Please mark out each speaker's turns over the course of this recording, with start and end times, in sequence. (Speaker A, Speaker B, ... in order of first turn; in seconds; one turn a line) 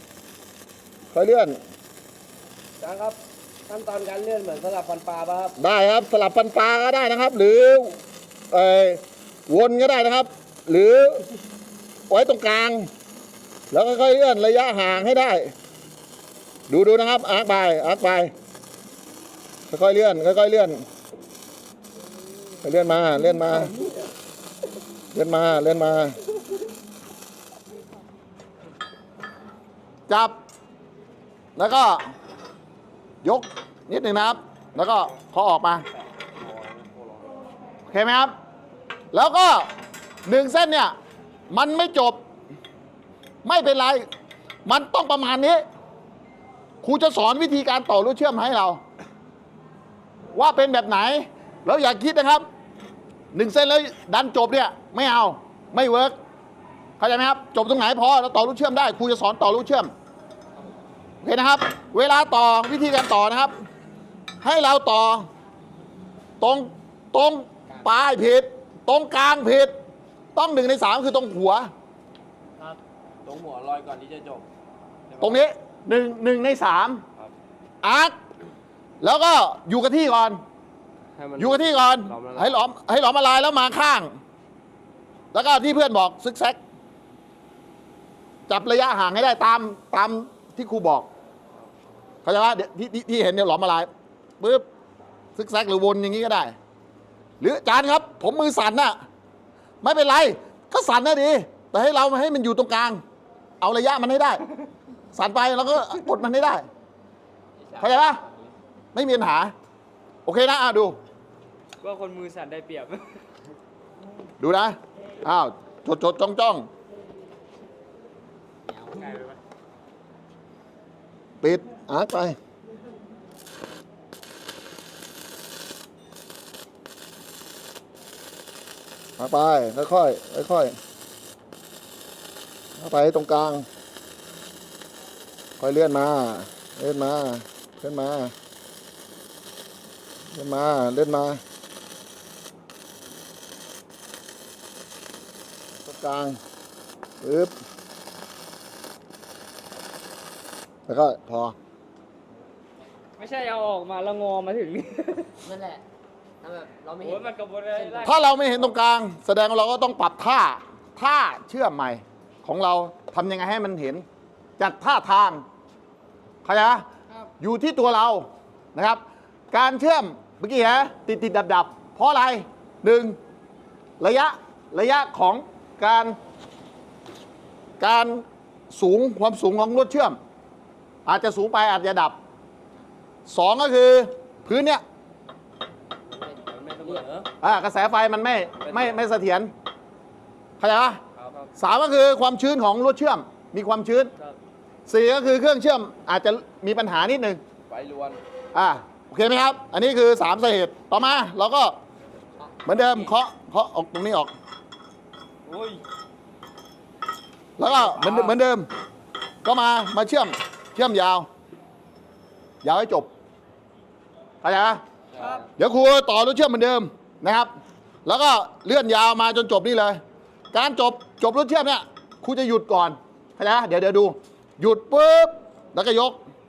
Speaker A: 1.1-1.6
Speaker B: 2.8-5.6
Speaker A: 5.6-8.0
Speaker A: 8.5-11.3
Speaker A: 12.1-12.9
Speaker A: 13.7-15.5
Speaker A: 16.7-18.3
Speaker A: 19.7-20.8
Speaker A: 22.6-23.8
Speaker A: 25.1-26.2
Speaker A: 30.1-30.4
Speaker A: 31.6-32.1
Speaker A: 33.2-35.9
Speaker B: 36.0-37.4
Speaker A: 37.9-38.3
Speaker A: 39.1-39.7
Speaker A: 40.2-40.9
Speaker A: 41.5-42.2
Speaker A: 43.4-44.0
Speaker A: 44.6-45.6
Speaker A: 46.8-48.8
Speaker A: 50.3-52.4
Speaker A: 53.3-56.1
Speaker A: 57.0-59.9
Speaker A: 61.2-63.5
Speaker A: 64.4-65.3
Speaker A: 66.4-69.7
Speaker A: 70.3-71.7
Speaker B: 73.2-74.4
Speaker B: 75.1-75.4
Speaker A: 75.2-77.0
Speaker A: 77.8-78.2
Speaker A: 79.0-80.4
Speaker B: 81.1-82.7
Speaker A: 81.4-84.2
Speaker A: 85.3-86.6
Speaker A: 88.5-91.1
Speaker A: 92.2-93.9
Speaker A: 94.4-94.6
Speaker A: 95.3-96.5
Speaker A: 97.4-99.0
Speaker A: 99.8-103.0
Speaker A: 103.6-104.4
Speaker A: 105.1-106.7
Speaker C: 107.6-108.5
Speaker A: 107.8-108.2
Speaker A: 108.9-109.5
Speaker A: 110.2-111.0
Speaker D: 111.8-113.2
Speaker A: 114.4-116.7
Speaker C: 118.7-119.4
Speaker A: 121.4-122.4
Speaker A: 129.2-130.7
Speaker A: 132.8-133.7
Speaker A: 135.6-138.3
Speaker A: 140.3-141.4
Speaker A: 145.8-146.4
Speaker A: 147.2-147.5
Speaker A: 150.9-151.6
Speaker D: 153.2-155.3
Speaker C: 155.4-155.8
Speaker C: 156.4-158.2
Speaker D: 157.0-158.6
Speaker A: 158.0-164.0
Speaker A: 164.6-165.4
Speaker A: 166.4-166.8
Speaker A: 167.4-173.2
Speaker A: 174.0-176.2
Speaker A: 177.8-180.2
Speaker A: 181.1-182.2
Speaker A: 183.3-184.8
Speaker C: 186.0-187.1
Speaker B: 186.5-187.3
Speaker A: 187.4-189.5
Speaker B: 188.6-189.1
Speaker A: 190.6-191.0
Speaker B: 191.1-191.5
Speaker A: 191.6-194.1
Speaker A: 194.9-197.4
Speaker B: 197.7-198.2
Speaker A: 198.5-201.8
Speaker C: 202.4-202.9
Speaker A: 202.6-204.3
Speaker D: 205.4-205.8
Speaker A: 207.6-208.7
Speaker B: 207.6-208.4
Speaker A: 209.4-211.3
Speaker A: 212.6-213.1
Speaker A: 214.4-214.8
Speaker B: 215.1-215.4
Speaker A: 215.6-217.5
Speaker A: 218.0-220.0
Speaker A: 220.5-226.2